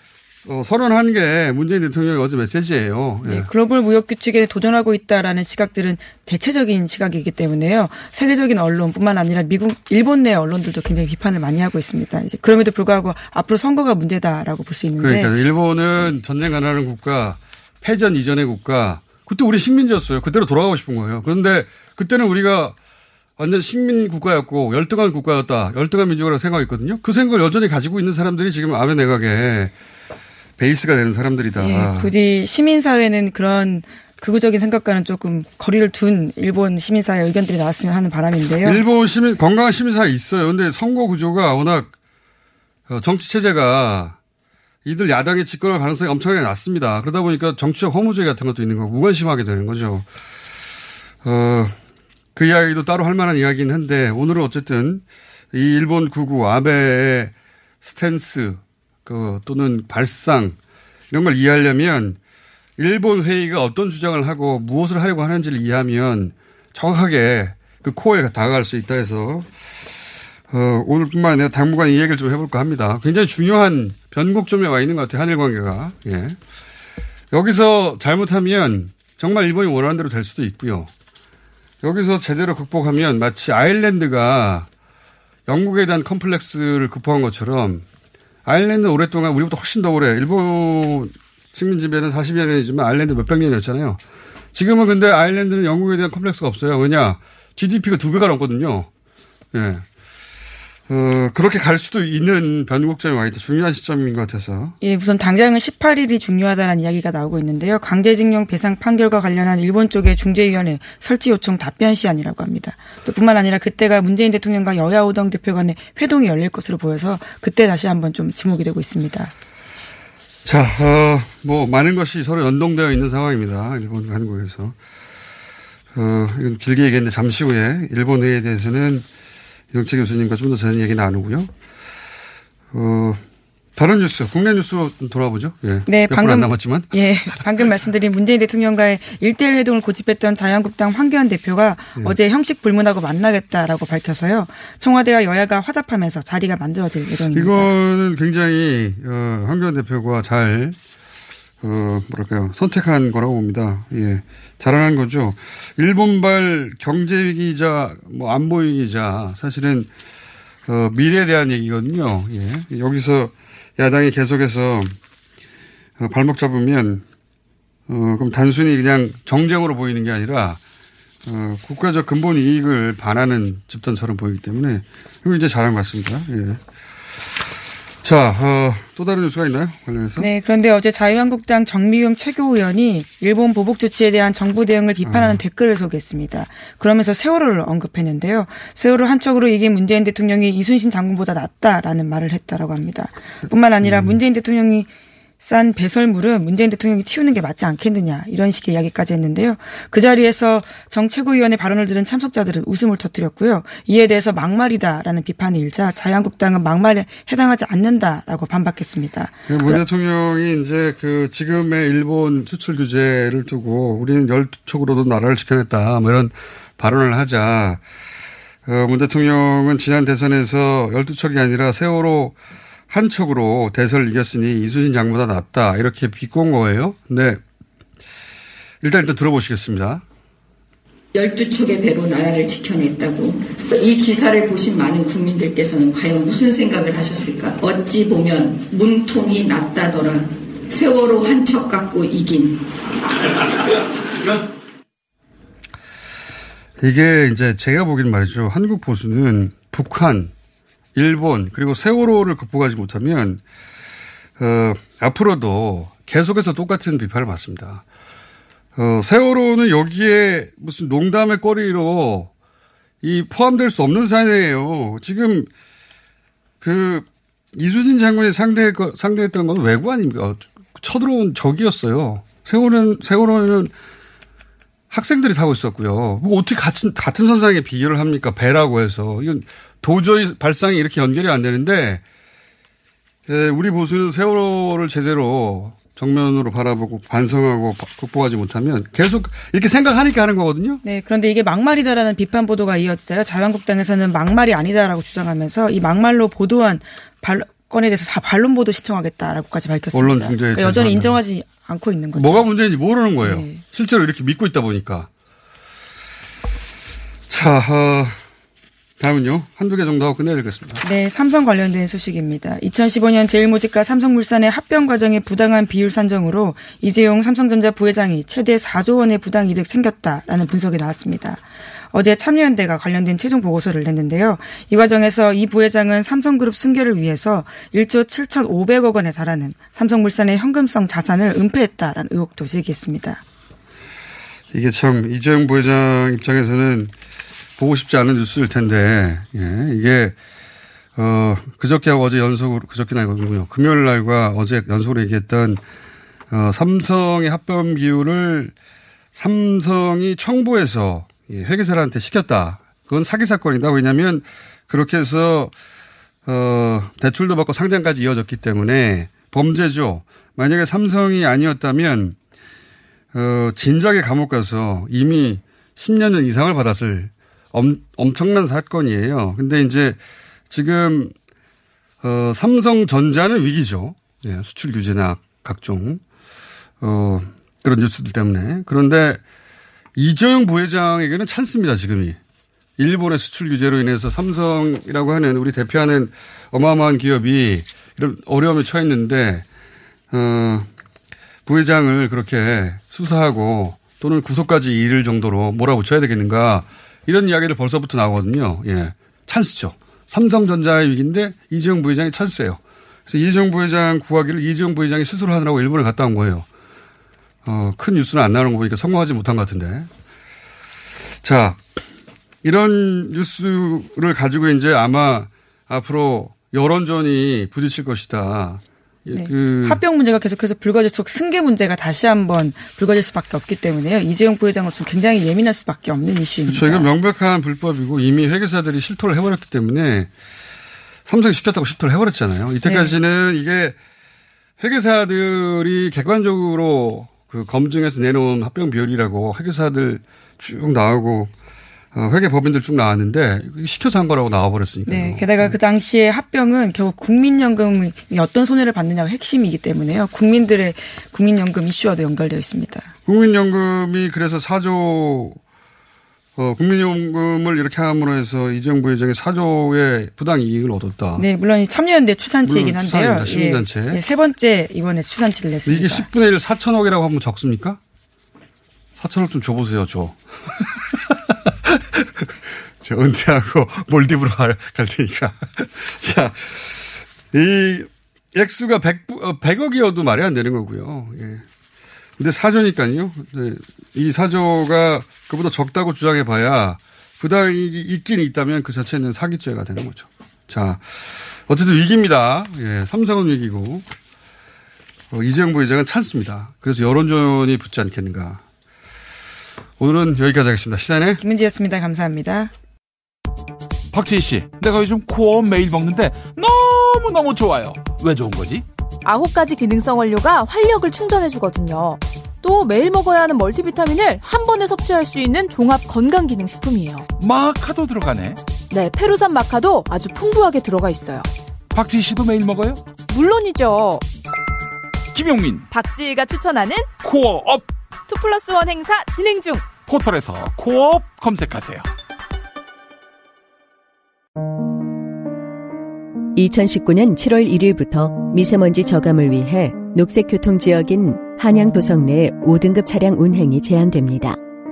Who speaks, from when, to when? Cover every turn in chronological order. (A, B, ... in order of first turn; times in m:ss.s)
0:00.4-0:03.5 A
0:03.2-0:15.3 B
0:15.0-0:22.7 A
0:23.4-0:29.7 A
0:30.6-0:32.1 A
0:31.6-0:38.8 B
0:38.6-0:41.9 A
0:42.9-0:44.2 A
0:44.8-0:50.0 A
0:51.2-0:51.8 A
0:52.4-1:00.6 A
1:01.1-1:02.2 A
1:02.8-1:16.4 A
1:17.3-1:20.9 A
1:21.8-1:24.7 A
1:25.5-1:27.8 A
1:28.4-1:34.0 A
1:34.5-1:38.9 A
1:39.5-1:39.8 A
1:40.9-1:44.8 A
1:44.8-1:59.3 B
2:00.4-2:04.7 A
2:05.9-2:09.0 A
2:09.7-2:11.5 A
2:12.7-2:13.2 A
2:13.8-2:17.6 A
2:15.9-2:27.7 B
2:27.3-2:30.8 A
2:31.6-2:39.9 A
2:40.7-2:44.9 A
2:46.0-2:47.0 A
2:47.9-2:50.6 A
2:51.2-2:56.6 A
2:58.0-3:00.3 A
3:00.2-3:14.9 B
3:05.0-3:05.4 A
3:13.8-3:14.2 A
3:15.4-3:29.8 B
3:29.5-3:37.8 A
3:38.6-3:42.4 A
3:42.9-3:47.4 A
3:48.8-3:50.0 A
3:51.1-4:02.7 C
4:06.8-4:10.3 A
4:10.9-4:13.4 A
4:14.4-4:17.8 A
4:18.8-4:22.3 A
4:23.0-4:25.5 A
4:26.6-4:33.7 A
4:34.9-4:42.0 A
4:43.3-4:50.8 A
4:50.8-5:02.5 B
4:59.9-5:01.2 A
5:02.1-5:05.1 A
5:03.2-5:03.6 B
5:07.3-5:08.2 A
5:09.0-5:10.8 A
5:10.8-5:33.2 B
5:34.5-5:36.9 A
5:37.6-5:40.1 A
5:41.0-5:45.6 A
5:46.3-5:48.5 A
5:49.1-5:55.5 A
5:56.2-6:02.2 A
6:03.1-6:10.0 A
6:10.5-6:11.1 A
6:12.0-6:16.0 A
6:16.8-6:19.2 A
6:20.0-6:22.2 A
6:22.8-6:29.4 A
6:30.1-6:30.7 A
6:31.4-6:46.4 A
6:47.4-6:49.9 A
6:51.2-6:51.8 A
6:52.4-6:59.8 A
6:59.1-7:06.9 B
7:06.5-7:10.1 A
7:11.0-7:13.8 A
7:12.6-7:12.9 B
7:14.6-7:21.3 A
7:21.9-7:25.6 A
7:24.9-7:32.9 B
7:33.0-7:35.4 A
7:36.4-7:41.2 A
7:41.2-7:46.1 B
7:42.4-7:44.0 A
7:45.6-7:47.8 A
7:49.0-7:51.1 A
7:51.6-7:52.3 A
7:52.8-8:01.4 A
8:02.2-8:13.8 A
8:15.1-8:18.4 A
8:19.8-8:21.2 A
8:21.2-8:22.5 B
8:23.9-8:28.6 D
8:29.0-8:37.1 E
8:37.2-8:38.4 D
8:38.7-8:41.3 E
8:41.7-8:42.9 D
8:43.1-8:44.0 E
8:45.1-8:45.7 D
8:45.7-8:46.9 E
8:47.0-8:47.7 D
8:48.1-8:49.7 E
8:49.8-8:51.9 D
8:56.3-9:04.4 F